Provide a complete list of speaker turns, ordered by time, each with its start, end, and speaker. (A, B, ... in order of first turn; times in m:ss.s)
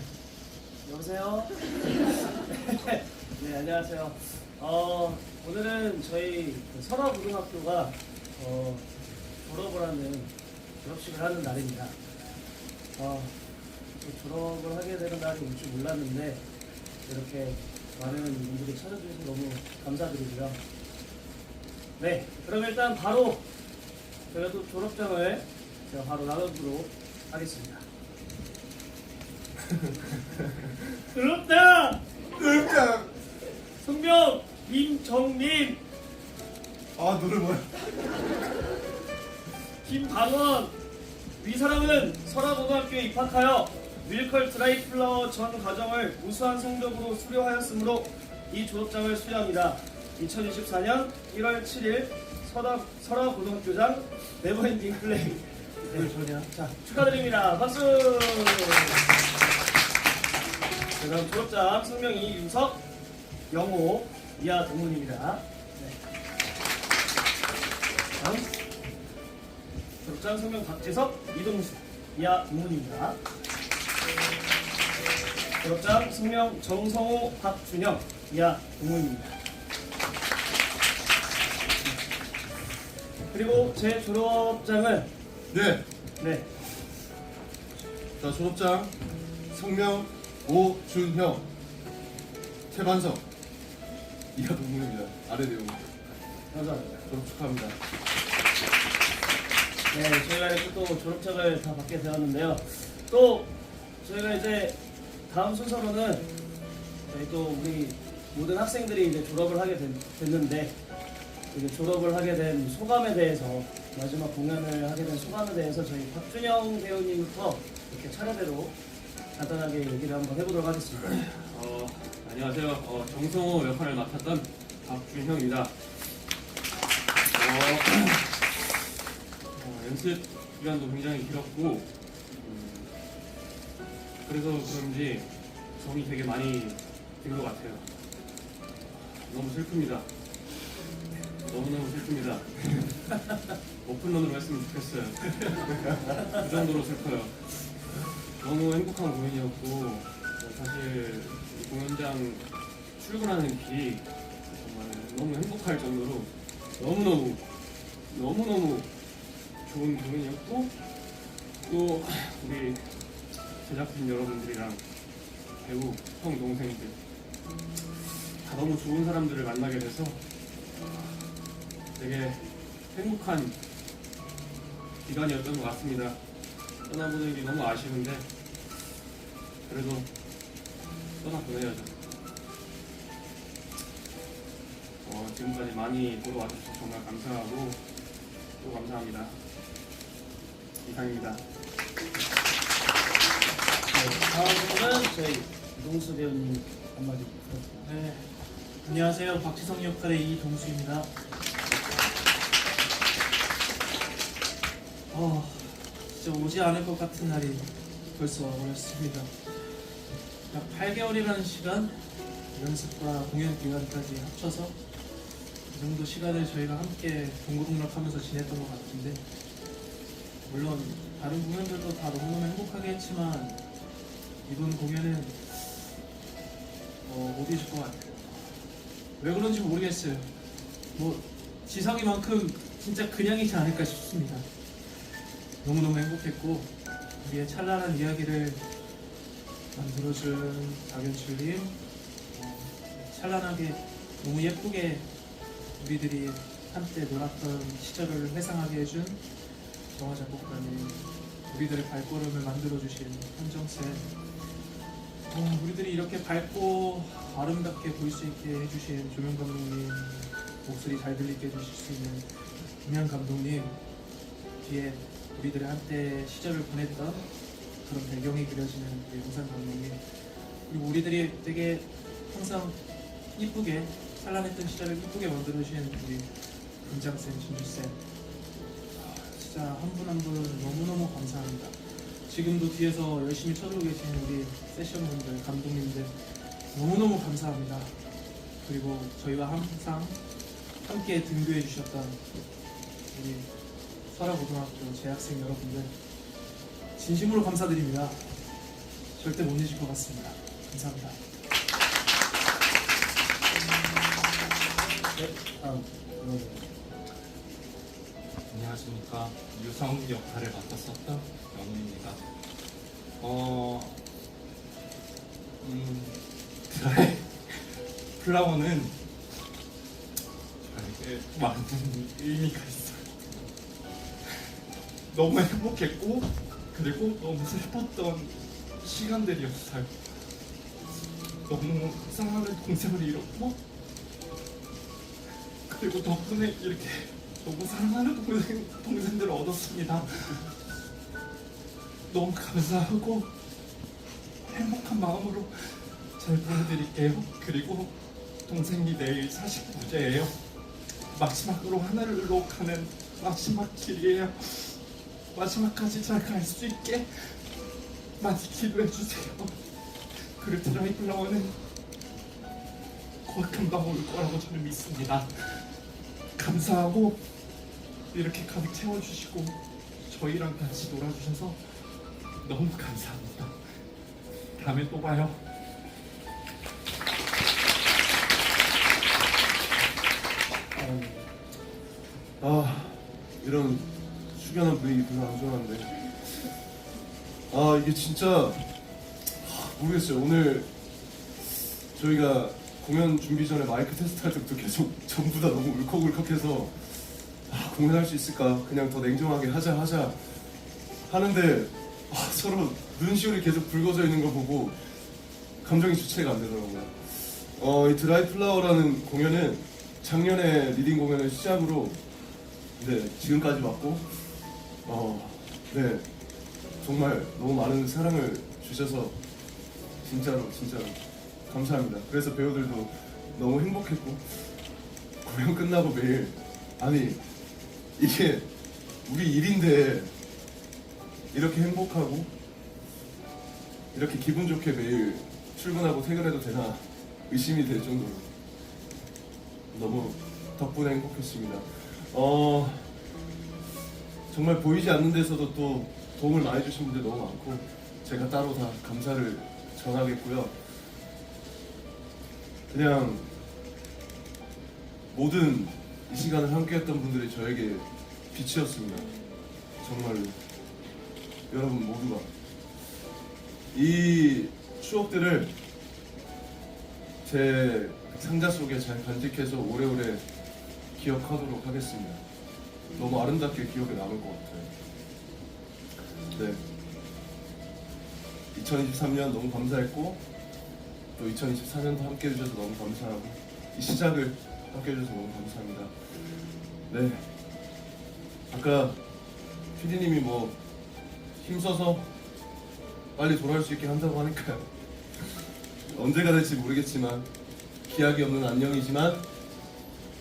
0:00.8-0:01.8 A
0:02.4-0:08.9 A
0:09.4-0:12.0 A
0:13.0-0:13.4 A
0:14.0-0:16.4 A
0:17.0-0:20.6 A
0:22.0-0:23.5 A
0:24.3-0:27.8 A
0:31.1-0:32.0 A
0:32.4-0:33.1 B
0:33.8-0:35.8 A
0:37.0-0:37.9 B
0:39.8-0:40.8 A
0:41.4-0:59.0 A
1:01.0-1:02.8 A
1:03.5-1:06.0 A
1:08.2-1:08.6 A
1:10.0-1:13.2 A
1:15.6-1:19.4 A
1:23.3-1:25.1 A
1:25.5-1:25.8 B
1:26.2-1:26.5 A
1:28.2-1:29.0 B
1:29.5-1:31.4 B
1:32.7-1:33.2 B
1:34.3-1:36.1 B
1:36.5-1:37.0 A
1:37.1-1:37.8 B
1:39.9-1:46.3 A
1:47.1-1:50.8 A
1:51.5-1:58.8 A
1:59.4-2:01.1 A
2:01.4-2:05.7 C
2:07.3-2:08.4 C
2:09.6-2:12.9 C
2:14.2-2:17.9 C
2:18.9-2:20.1 C
2:21.4-2:23.0 C
2:23.8-2:27.6 C
2:28.4-2:37.4 C
2:38.1-2:38.9 C
2:39.6-2:40.7 C
2:41.6-2:43.0 C
2:43.6-2:44.8 C
2:45.6-2:46.9 C
2:48.4-2:50.2 C
2:50.8-2:51.2 C
2:52.0-2:53.6 C
2:55.0-2:56.2 C
2:56.8-2:58.3 C
2:59.7-3:00.1 C
3:01.2-3:01.9 C
3:05.0-3:07.8 C
3:08.6-3:09.4 C
3:10.8-3:11.4 C
3:13.9-3:17.9 A
3:17.8-3:18.3 D
3:18.8-3:21.1 D
3:25.1-3:29.3 D
3:30.5-3:32.0 D
3:32.5-3:34.8 D
3:35.7-3:39.2 D
3:40.4-3:43.6 D
3:44.4-3:45.9 D
3:47.0-3:48.6 D
3:49.2-3:50.3 D
3:50.9-3:54.5 D
3:55.6-3:58.6 D
3:59.7-4:01.8 D
4:02.3-4:05.1 D
4:05.8-4:09.2 D
4:09.9-4:14.1 D
4:15.3-4:23.8 D
4:24.6-4:32.8 D
4:33.3-4:38.0 D
4:38.9-4:48.0 D
4:48.6-4:50.2 D
4:50.8-4:52.2 D
4:53.1-4:53.5 D
4:54.1-4:55.9 D
4:57.0-4:58.3 D
4:59.2-5:01.2 D
5:05.1-5:06.8 A
5:08.5-5:12.2 E
5:13.2-5:14.0 E
5:15.6-5:19.0 E
5:20.6-5:23.5 E
5:24.2-5:24.5 E
5:25.1-5:30.3 E
5:31.4-5:33.6 E
5:35.7-5:40.6 E
5:42.1-5:43.3 E
5:44.4-5:57.6 E
5:58.2-6:01.6 E
6:03.2-6:05.8 E
6:06.4-6:07.2 E
6:08.1-6:13.9 E
6:14.6-6:15.4 E
6:20.7-6:21.3 A
6:22.4-6:26.1 B
6:27.5-6:28.6 B
6:29.4-6:30.7 B
6:31.9-6:40.4 B
6:41.1-6:44.9 B
6:45.6-6:52.0 B
6:52.8-6:54.2 B
6:54.8-6:56.1 B
6:56.8-6:59.2 B
7:00.0-7:04.5 B
7:05.2-7:07.2 B
7:08.0-7:08.5 B
7:09.0-7:10.1 B
7:11.3-7:12.3 B
7:13.9-7:18.3 B
7:19.7-7:22.9 B
7:24.3-7:30.5 B
7:32.7-7:33.3 B
7:35.1-7:39.2 B
7:39.8-7:40.4 B
7:41.5-7:42.3 B
7:43.7-7:45.5 B
7:47.2-7:50.2 B
7:51.0-7:52.2 B
7:53.0-7:54.7 B
7:56.3-7:56.6 B
7:58.5-8:00.2 B
8:01.2-8:06.1 B
8:06.9-8:07.3 B
8:08.5-8:09.0 B
8:09.8-8:10.6 B
8:11.4-8:12.1 B
8:13.2-8:14.7 B
8:15.2-8:17.3 B
8:17.9-8:19.2 B